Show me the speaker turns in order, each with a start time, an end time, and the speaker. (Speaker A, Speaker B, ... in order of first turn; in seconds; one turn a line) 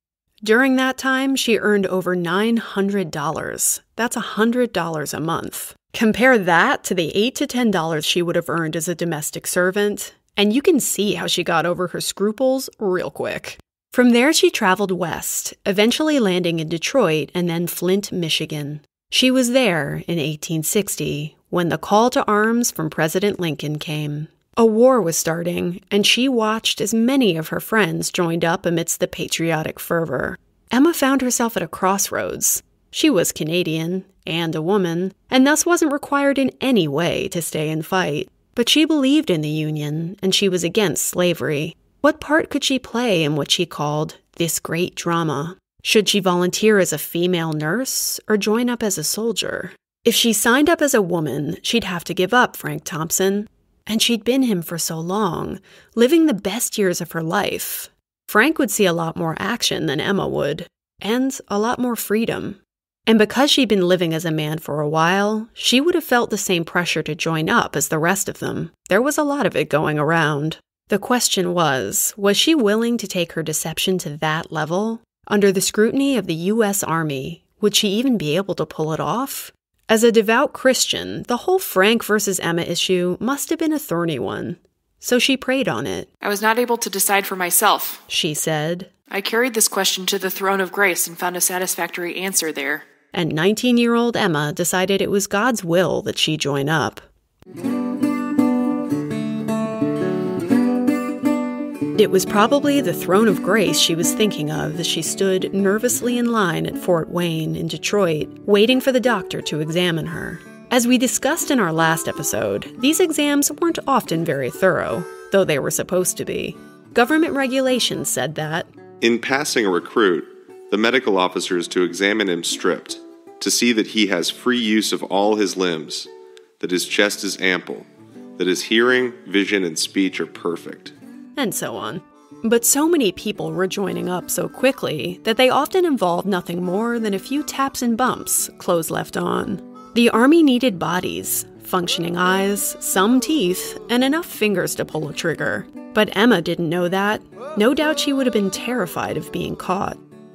Speaker A: 0.4-86.1
Speaker B: 86.2-88.0
Speaker A: 88.1-88.9
Speaker B: 89.1-92.8
Speaker A: 93.1-97.0
Speaker A: 102.0-118.7
Speaker C: 119.0-126.1
Speaker C: 126.6-130.9
Speaker A: 131.4-150.0